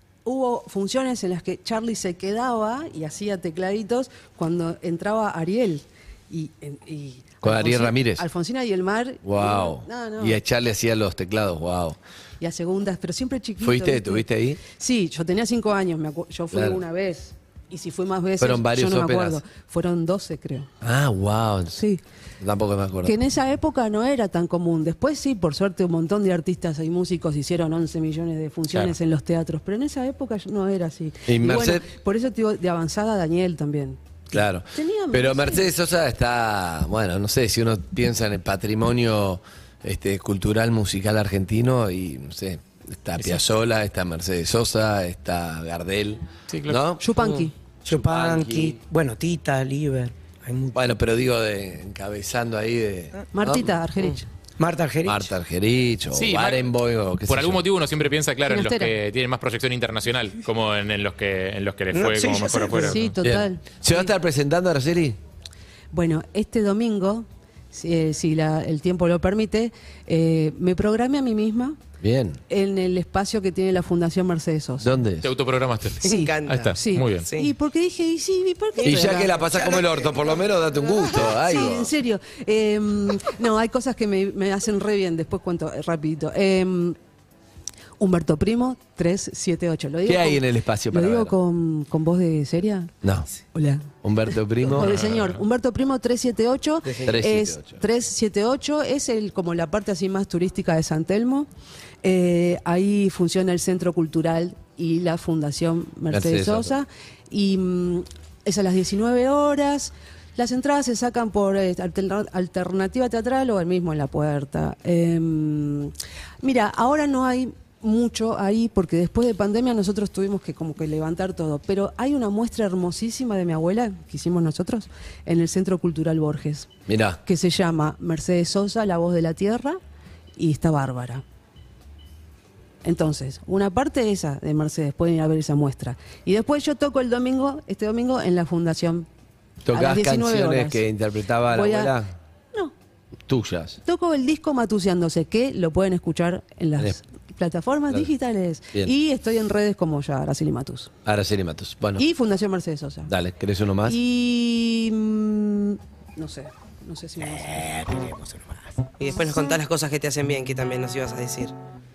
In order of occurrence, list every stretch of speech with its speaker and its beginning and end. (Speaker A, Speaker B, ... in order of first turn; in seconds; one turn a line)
Speaker A: 0.2-10.4
Speaker B: 7.4-8.3
Speaker B: 9.2-12.0
Speaker A: 12.4-20.7
Speaker B: 13.6-14.6
Speaker B: 16.5-16.8
Speaker B: 18.4-19.4
Speaker B: 20.8-21.8
Speaker A: 21.8-22.0
Speaker B: 22.4-23.1
Speaker A: 23.1-34.0
Speaker B: 31.3-31.9
Speaker B: 34.3-48.8
Speaker A: 34.7-35.7
Speaker C: 46.5-46.8
Speaker A: 47.0-47.5
Speaker D: 47.9-50.9
Speaker B: 50.7-53.7
Speaker A: 53.3-54.3
Speaker D: 54.6-55.3
Speaker B: 55.1-57.7
Speaker C: 56.1-56.7
Speaker C: 57.3-63.2
Speaker A: 58.5-59.0
Speaker D: 61.9-63.0
Speaker A: 62.8-64.1
Speaker B: 63.2-65.2
Speaker A: 65.9-71.8
Speaker B: 72.0-72.4
Speaker A: 72.5-74.9
Speaker B: 74.8-75.3
Speaker C: 75.2-77.3
Speaker E: 76.0-77.5
Speaker A: 76.0-79.7
Speaker E: 78.8-79.9
Speaker B: 78.8-81.9
Speaker A: 81.1-87.0
Speaker A: 88.0-92.9
Speaker B: 90.1-91.3
Speaker B: 93.0-93.3
Speaker A: 93.5-93.9
Speaker B: 94.0-95.0
Speaker A: 94.6-101.5
Speaker C: 94.8-95.4
Speaker B: 97.0-97.8
Speaker A: 102.0-126.7
Speaker B: 106.1-106.7
Speaker B: 126.9-127.2
Speaker A: 127.2-129.8
Speaker A: 130.4-131.2
Speaker A: 132.8-139.1
Speaker B: 139.7-142.1
Speaker A: 139.7-140.9
Speaker A: 141.4-142.0
Speaker B: 143.3-143.8
Speaker A: 143.8-150.9
Speaker B: 151.1-152.0
Speaker A: 152.0-153.1
Speaker B: 153.1-154.0
Speaker A: 153.8-157.6
Speaker D: 157.2-158.8
Speaker E: 159.0-161.5